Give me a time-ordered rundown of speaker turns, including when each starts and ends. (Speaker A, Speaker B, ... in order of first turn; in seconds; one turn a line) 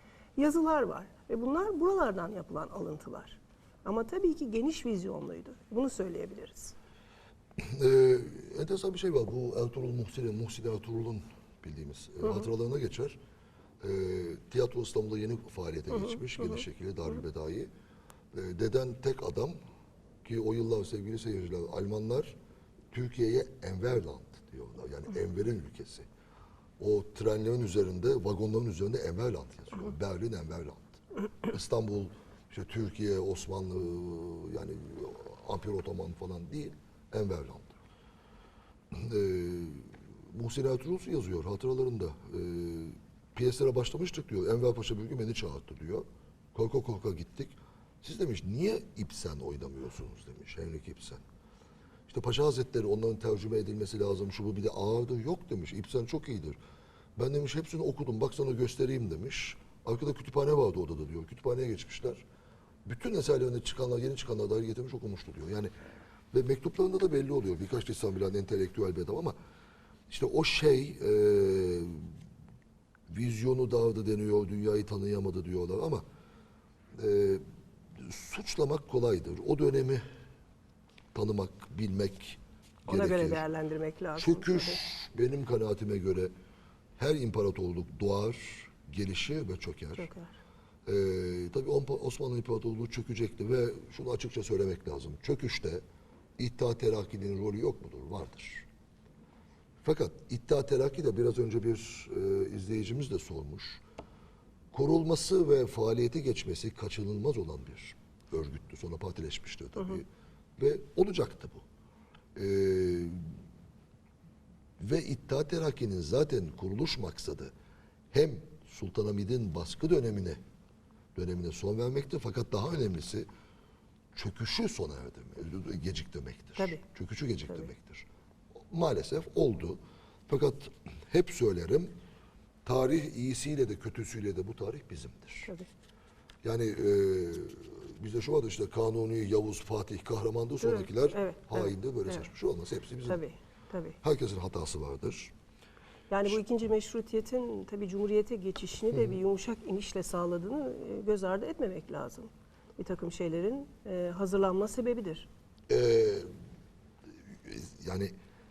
Speaker A: 0.3-6.7
Speaker B: 7.6-13.2
Speaker A: 12.2-12.5
Speaker B: 13.8-17.7
Speaker A: 15.9-16.6
Speaker B: 18.3-19.6
Speaker B: 20.2-22.3
Speaker B: 22.9-26.1
Speaker B: 26.8-37.8
Speaker B: 38.9-51.2
Speaker B: 52.1-56.6
Speaker B: 57.2-62.2
Speaker B: 62.9-65.7
Speaker B: 66.3-69.3
Speaker B: 70.1-72.1
Speaker B: 73.1-76.0
Speaker B: 77.0-77.4
Speaker B: 78.0-80.0
Speaker B: 81.1-83.4
Speaker A: 82.9-84.8
Speaker B: 84.2-86.3
Speaker B: 87.0-90.1
Speaker A: 90.0-90.3
Speaker B: 90.8-95.8
Speaker B: 96.4-98.7
Speaker B: 99.8-103.8
Speaker B: 104.7-110.0
Speaker B: 110.6-111.6
Speaker B: 112.3-113.3
Speaker B: 114.8-117.5
Speaker B: 118.1-120.4
Speaker B: 121.1-123.3
Speaker B: 124.1-128.1
Speaker B: 128.7-131.9
Speaker B: 132.7-135.5
Speaker B: 136.4-143.2
Speaker A: 140.6-142.3
Speaker A: 143.1-144.0
Speaker B: 144.0-145.3
Speaker A: 146.1-155.3
Speaker B: 155.7-156.3
Speaker B: 157.3-158.1